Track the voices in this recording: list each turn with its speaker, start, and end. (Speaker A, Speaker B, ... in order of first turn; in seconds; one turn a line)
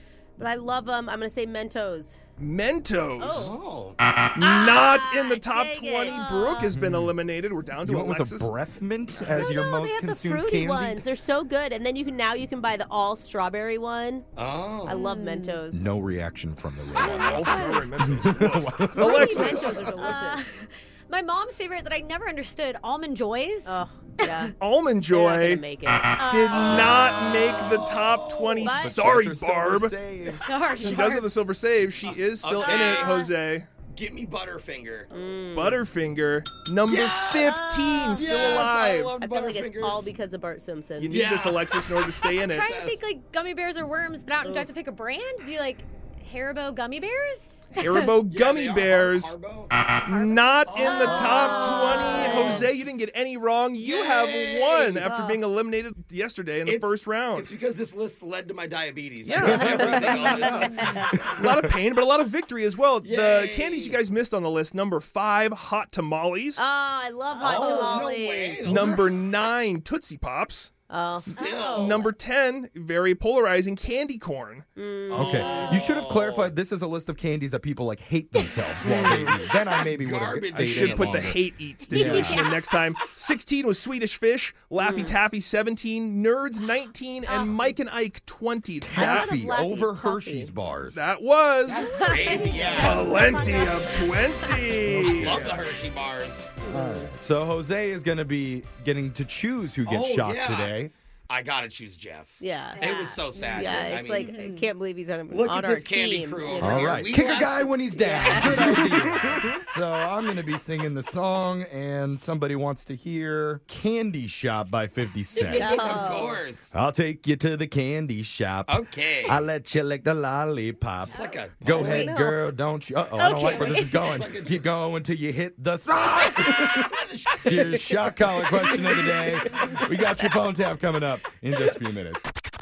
Speaker A: 0.4-2.2
Speaker B: 2.4-3.5
Speaker A: 3.2-3.6
Speaker C: 3.3-4.0
Speaker B: 4.3-8.5
Speaker A: 4.4-6.2
Speaker D: 6.1-6.7
Speaker E: 6.7-7.1
Speaker E: 7.8-11.1
Speaker B: 9.2-9.7
Speaker A: 9.2-14.3
Speaker C: 14.4-15.0
Speaker A: 14.8-15.9
Speaker D: 14.9-15.6
Speaker E: 15.7-19.9
Speaker A: 16.9-17.9
Speaker B: 17.0-19.8
Speaker A: 18.9-20.4
Speaker D: 20.0-24.5
Speaker A: 23.7-24.6
Speaker B: 24.6-25.6
Speaker A: 25.1-26.3
Speaker D: 26.2-26.8
Speaker B: 26.2-29.9
Speaker C: 26.5-28.6
Speaker A: 28.6-29.1
Speaker E: 28.7-30.5
Speaker D: 30.3-31.3
Speaker B: 30.8-33.7
Speaker C: 32.0-33.2
Speaker D: 32.6-33.3
Speaker C: 33.9-35.1
Speaker A: 35.1-35.8
Speaker B: 35.5-39.2
Speaker C: 36.8-37.5
Speaker D: 37.4-38.4
Speaker C: 38.1-40.1
Speaker A: 38.3-41.2
Speaker B: 41.0-42.7
Speaker C: 41.1-43.0
Speaker D: 42.3-48.1
Speaker B: 47.8-57.5
Speaker C: 48.3-49.7
Speaker D: 50.1-52.7
Speaker C: 50.6-52.4
Speaker A: 51.2-52.7
Speaker C: 53.8-55.1
Speaker A: 55.0-55.4
Speaker C: 56.6-61.2
Speaker B: 59.3-60.7
Speaker A: 59.4-61.2
Speaker E: 59.5-59.8
Speaker E: 60.7-61.7
Speaker B: 61.2-66.6
Speaker C: 63.0-64.0
Speaker A: 66.6-69.1
Speaker C: 67.4-69.3
Speaker D: 67.4-68.1
Speaker B: 68.6-70.7
Speaker A: 70.9-71.4
Speaker C: 71.3-72.0
Speaker D: 71.3-72.1
Speaker B: 71.7-74.7
Speaker A: 74.8-75.8
Speaker C: 75.1-76.5
Speaker E: 75.1-81.4
Speaker C: 78.9-81.4
Speaker B: 80.5-89.3
Speaker D: 81.9-82.7
Speaker E: 81.9-82.5
Speaker A: 84.8-85.2
Speaker D: 87.3-87.7
Speaker E: 88.8-91.1
Speaker A: 88.9-90.5
Speaker B: 90.9-95.6
Speaker C: 91.7-93.1
Speaker D: 91.8-94.5
Speaker A: 91.9-93.5
Speaker E: 92.8-93.0
Speaker E: 94.8-95.5
Speaker C: 95.1-96.5
Speaker A: 96.6-97.1
Speaker E: 96.7-100.9
Speaker C: 99.8-104.3
Speaker A: 102.4-107.1
Speaker D: 102.8-104.7
Speaker C: 105.3-107.8
Speaker E: 106.6-115.9
Speaker A: 107.9-108.9
Speaker C: 108.4-109.0
Speaker C: 115.3-116.7
Speaker A: 115.5-116.4
Speaker E: 116.7-126.9
Speaker C: 118.7-119.5
Speaker C: 121.1-122.2
Speaker D: 121.1-122.2
Speaker A: 121.8-122.4
Speaker D: 123.1-124.2
Speaker C: 123.4-124.7
Speaker C: 125.9-128.3
Speaker E: 127.4-132.3